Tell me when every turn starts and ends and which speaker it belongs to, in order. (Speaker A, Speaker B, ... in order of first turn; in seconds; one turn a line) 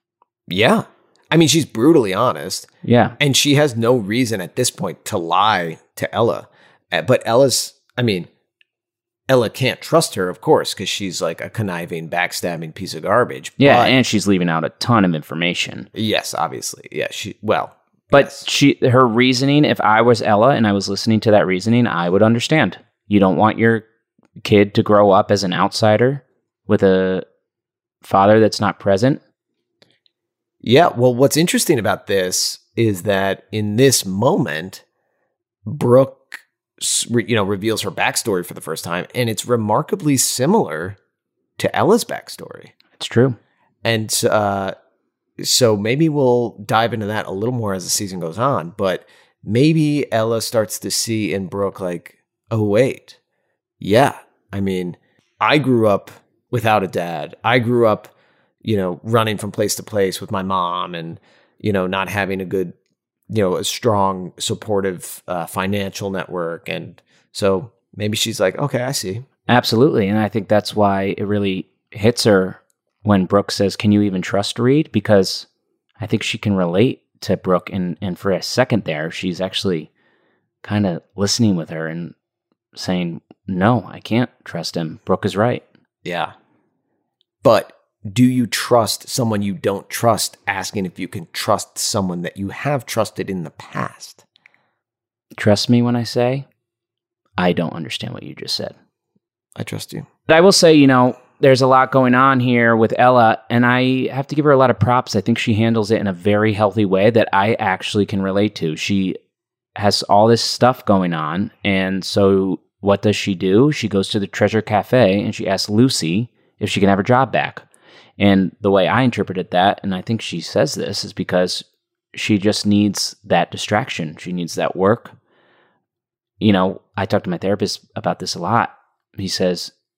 Speaker A: 0.5-2.7
Speaker B: 2.8-3.1
Speaker A: 3.2-8.3
Speaker A: 9.3-14.0
Speaker B: 13.6-15.9
Speaker A: 15.9-18.4
Speaker B: 18.1-23.8
Speaker B: 24.4-27.2
Speaker B: 28.0-29.2
Speaker A: 30.6-34.8
Speaker A: 35.6-41.0
Speaker A: 41.6-42.7
Speaker B: 43.0-43.4
Speaker A: 43.8-44.7
Speaker A: 45.4-53.2
Speaker A: 53.8-58.1
Speaker A: 58.6-62.7
Speaker A: 63.3-69.2
Speaker B: 69.5-75.5
Speaker B: 76.0-79.9
Speaker B: 80.6-82.1
Speaker B: 82.7-85.6
Speaker A: 86.0-86.3
Speaker A: 87.4-94.2
Speaker B: 95.4-96.5
Speaker B: 97.4-98.7
Speaker A: 99.5-100.1
Speaker B: 100.3-109.2
Speaker B: 109.8-117.6
Speaker B: 118.2-125.1
Speaker B: 126.4-129.7